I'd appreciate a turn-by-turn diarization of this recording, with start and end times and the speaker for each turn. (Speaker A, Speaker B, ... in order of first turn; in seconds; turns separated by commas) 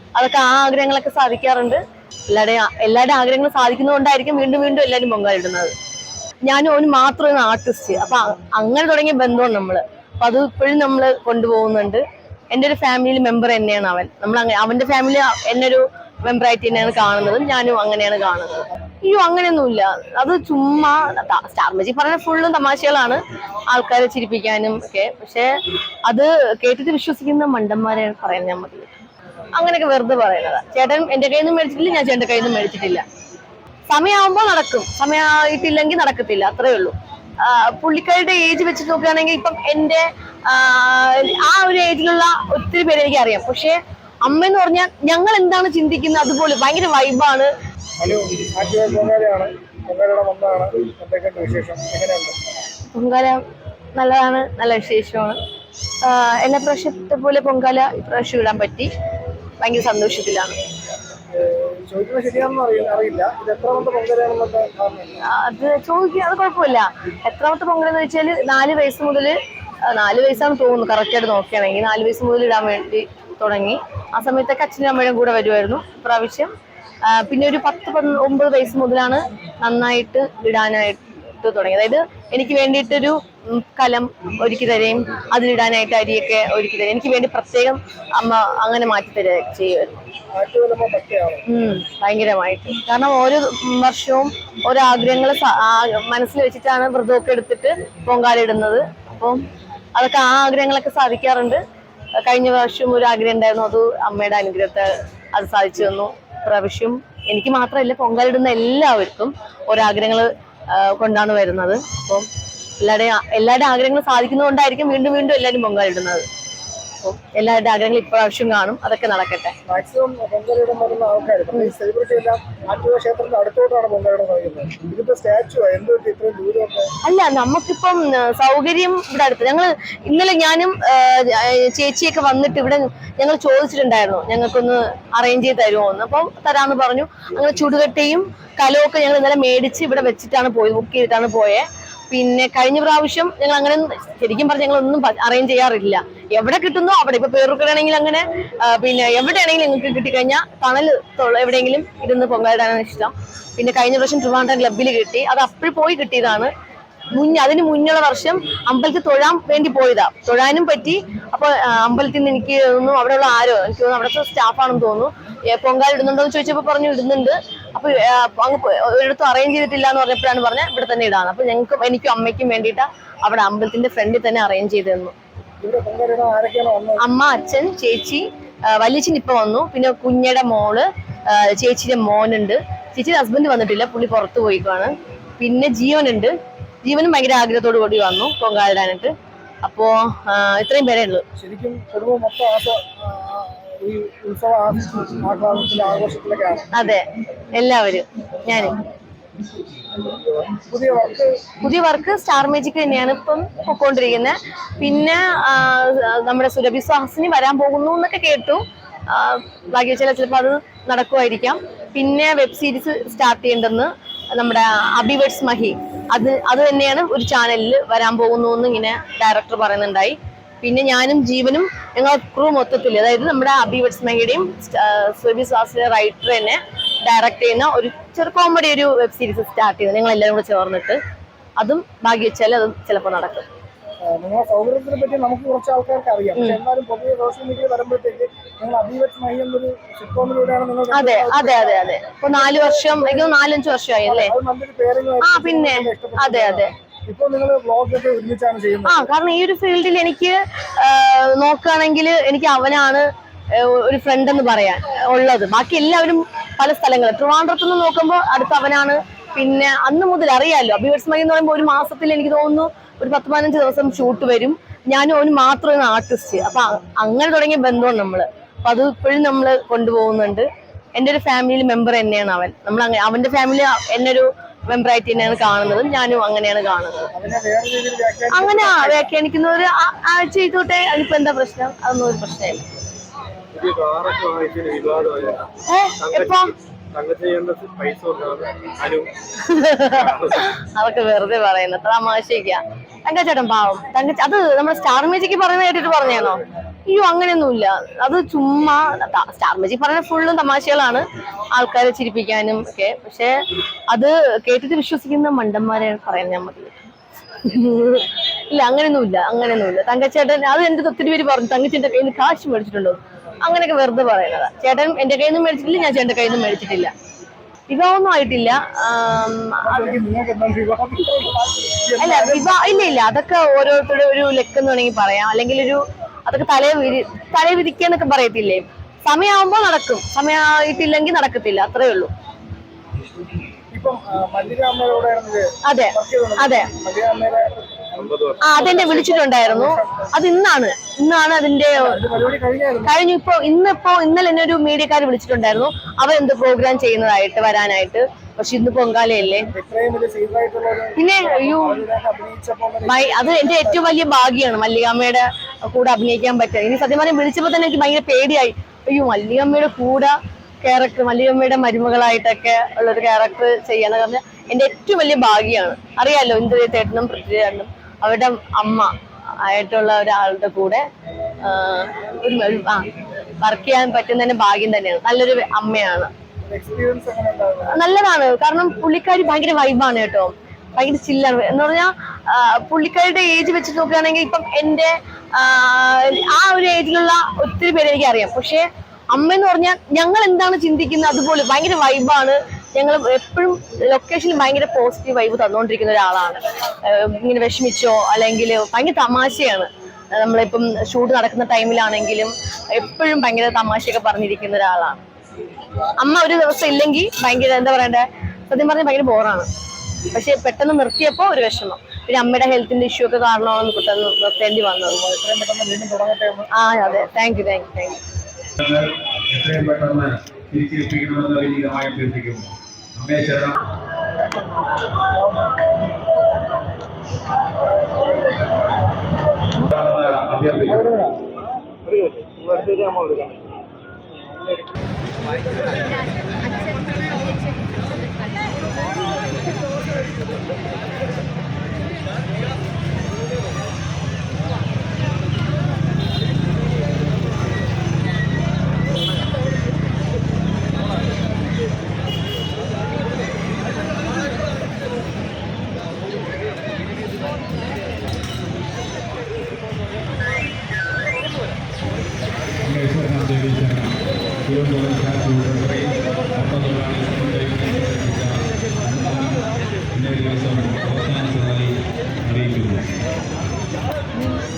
Speaker A: 0.2-5.7, Speaker A: 6.5-25.5, Speaker A: 26.1-29.0, Speaker A: 29.6-33.0, Speaker A: 33.9-47.5, Speaker B: 48.0-52.4, Speaker A: 52.9-53.4, Speaker A: 54.0-55.4, Speaker A: 56.0-58.9, Speaker A: 59.6-60.6, Speaker B: 61.3-65.2, Speaker A: 65.2-76.5, Speaker A: 77.0-90.1, Speaker B: 90.3-91.5, Speaker A: 91.5-99.4, Speaker A: 100.0-101.6, Speaker A: 102.2-112.3, Speaker A: 112.8-116.2, Speaker A: 117.0-119.5, Speaker B: 119.7-126.9, Speaker A: 127.0-156.5, Speaker A: 157.1-175.2, Speaker B: 175.6-177.0, Speaker A: 177.0-191.2, Speaker B: 191.4-196.7, Speaker A: 196.7-198.8, Speaker B: 200.4-201.4, Speaker A: 201.6-231.0, Speaker A: 231.6-233.5, Speaker B: 234.0-243.4, Speaker A: 240.9-244.3, Speaker B: 244.0-249.1, Speaker A: 245.2-246.7, Speaker A: 248.9-277.1, Speaker B: 277.1-279.1, Speaker A: 278.3-282.6, Speaker C: 283.5-289.1, Speaker A: 285.6-286.5, Speaker A: 289.4-303.4, Speaker C: 289.9-290.5, Speaker A: 303.9-306.9, Speaker A: 307.4-316.9, Speaker A: 317.7-320.0, Speaker B: 319.6-322.7, Speaker A: 322.0-332.1, Speaker B: 333.7-340.1, Speaker A: 335.6-336.7, Speaker C: 338.0-338.4, Speaker A: 338.4-342.0, Speaker B: 341.8-343.0, Speaker A: 342.9-349.5, Speaker B: 349.5-353.9, Speaker A: 351.0-351.8, Speaker A: 352.9-370.9, Speaker A: 371.4-376.1, Speaker B: 376.4-377.8, Speaker A: 377.7-405.0, Speaker A: 406.0-409.5, Speaker A: 410.1-415.0, Speaker B: 414.9-416.5, Speaker A: 416.5-418.0, Speaker D: 418.6-423.6, Speaker B: 425.1-425.6, Speaker D: 429.7-430.9, Speaker B: 430.7-431.2, Speaker C: 431.9-433.4, Speaker D: 462.6-472.9